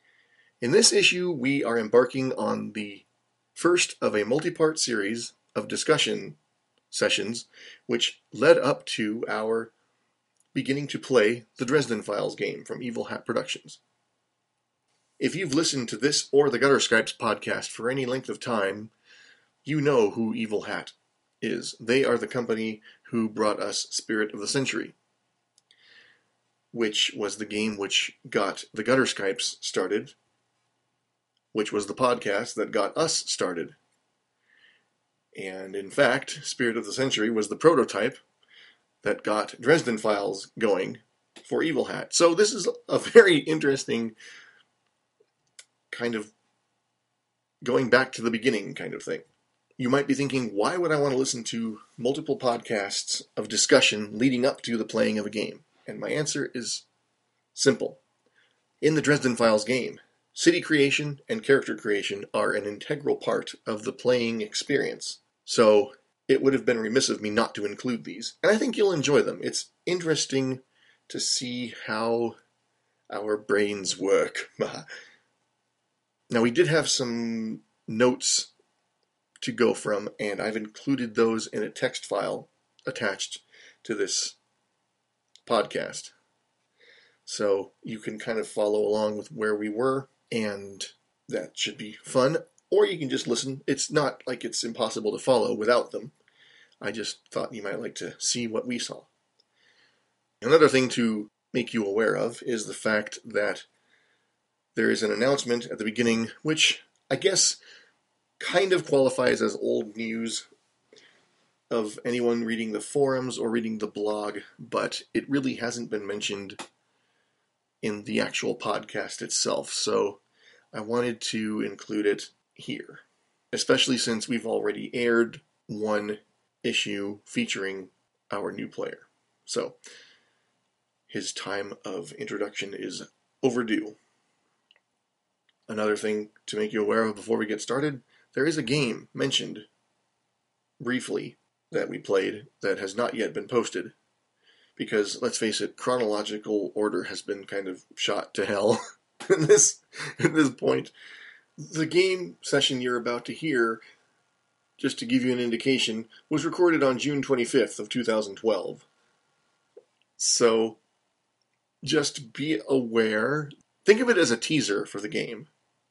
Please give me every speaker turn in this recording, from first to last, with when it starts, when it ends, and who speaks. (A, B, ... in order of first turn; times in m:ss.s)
0:00.6-0:06.4 A
0:06.9-0:09.7 A
0:10.5-0:13.8 A
0:15.2-0:18.9 A
0:19.6-0:24.9 A
0:26.7-0:30.1 A
0:31.5-0:33.8 A
0:35.4-0:38.2 A
0:39.0-0:44.1 A
0:45.9-0:46.3 A
0:47.6-0:49.2 A
0:49.8-0:56.8 A
0:57.5-0:58.0 A
0:58.8-1:12.4 A
1:13.1-1:14.8 A
1:16.3-1:18.5 A
1:19.4-1:24.4 A
1:25.4-1:26.1 A
1:27.2-1:36.1 A
1:36.8-1:39.1 A
1:40.4-1:43.6 A
1:44.7-1:47.6 A
1:48.4-1:50.4 A
1:51.7-1:56.6 A
1:57.8-2:00.2 A
2:00.7-2:09.8 A
2:11.1-2:14.0 A
2:15.7-2:19.7 A
2:20.8-2:23.9 A
2:24.8-2:30.9 A
2:31.6-2:33.8 A
2:34.8-2:38.8 A
2:40.2-2:40.8 A
2:41.8-2:45.5 A